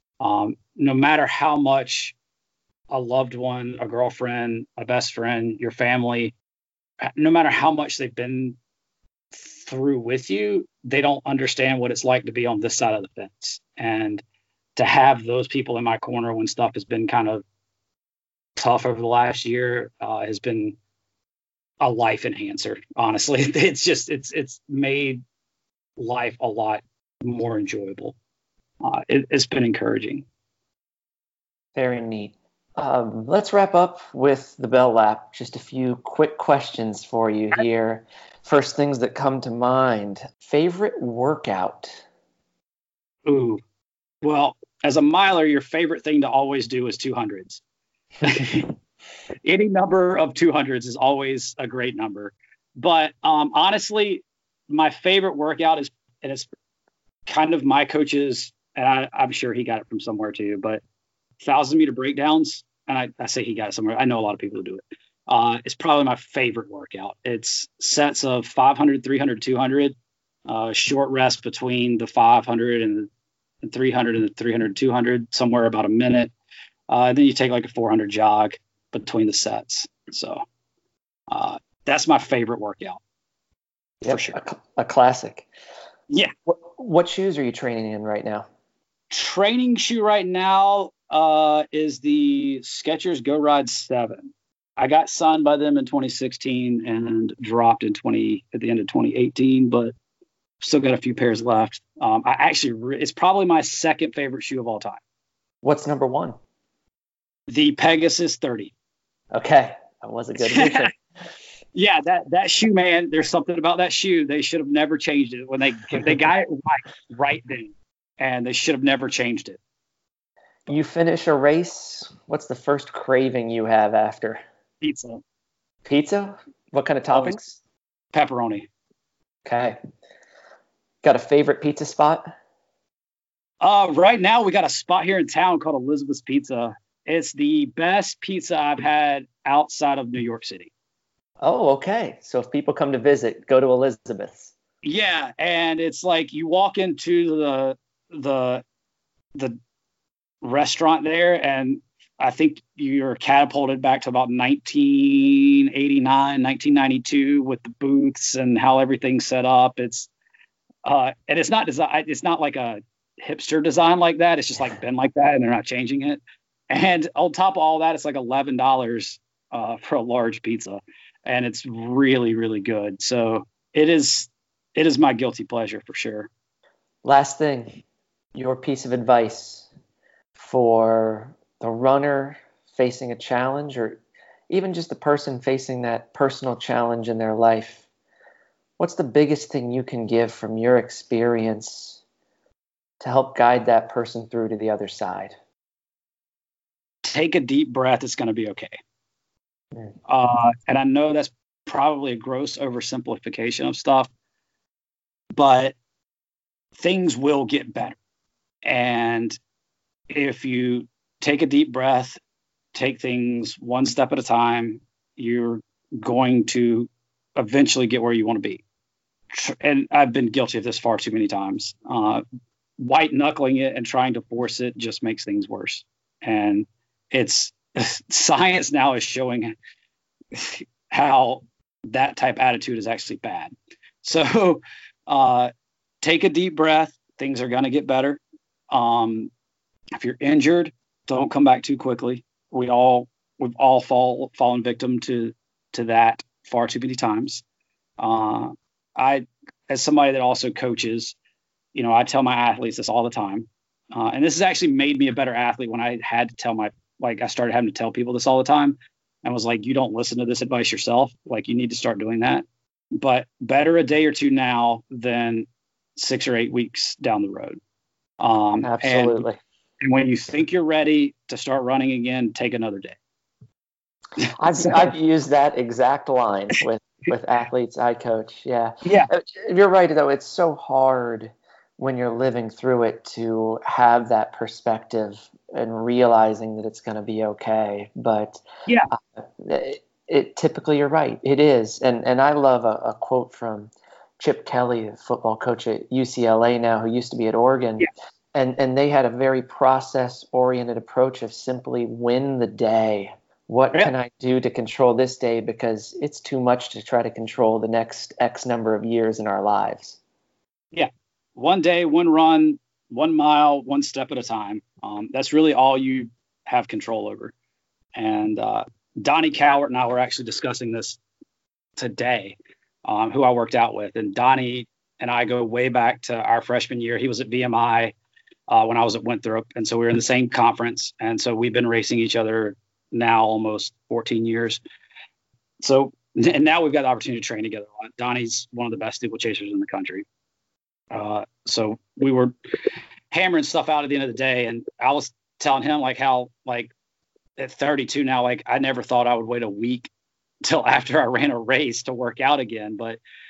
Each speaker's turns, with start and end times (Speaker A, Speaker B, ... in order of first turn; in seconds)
Speaker A: 0.2-2.1, 2.9-6.3, 7.2-8.6, 9.3-14.2, 14.8-17.4, 18.6-20.8, 21.8-25.2, 26.0-28.2, 28.8-30.2, 43.3-43.6, 44.2-47.6, 48.2-48.7, 49.4-56.5, 57.3-60.8, 61.4-70.0, 70.5-73.1, 73.6-76.3, 76.9-80.4, 81.3-83.0, 84.0-84.4, 89.1-99.9, 100.6-105.0, 107.5-108.7, 110.5-110.9, 111.8-119.6, 124.8-125.2, 128.1-128.7, 133.6-140.7, 144.8-148.6, 150.4-160.1, 160.8-176.3, 197.0-198.8, 200.1-204.1, 205.3-205.8, 206.8-208.0, 208.6-209.4, 210.1-212.2, 212.7-218.6, 219.3-222.2, 222.8-229.6, 230.3-233.5, 234.0-235.5, 236.0-239.3, 240.0-247.4, 248.0-251.2, 251.8-262.5, 263.0-267.6, 268.2-269.2, 269.8-273.0, 274.4-274.9, 278.8-279.1, 310.7-317.3, 317.9-321.0, 321.8-327.9, 328.5-334.6, 335.6-340.1, 340.9-342.3, 343.1-346.7, 347.4-349.9, 350.4-353.0
Speaker B: 31.8-42.0, 84.0-85.5, 86.5-88.5, 105.6-106.4, 109.3-110.9, 120.7-124.4, 125.8-127.6, 129.4-129.8, 131.0-132.3, 141.4-144.5, 177.0-177.8, 178.3-179.7, 180.4-187.8, 188.8-192.0, 193.0-195.3, 268.6-269.4, 274.4-310.0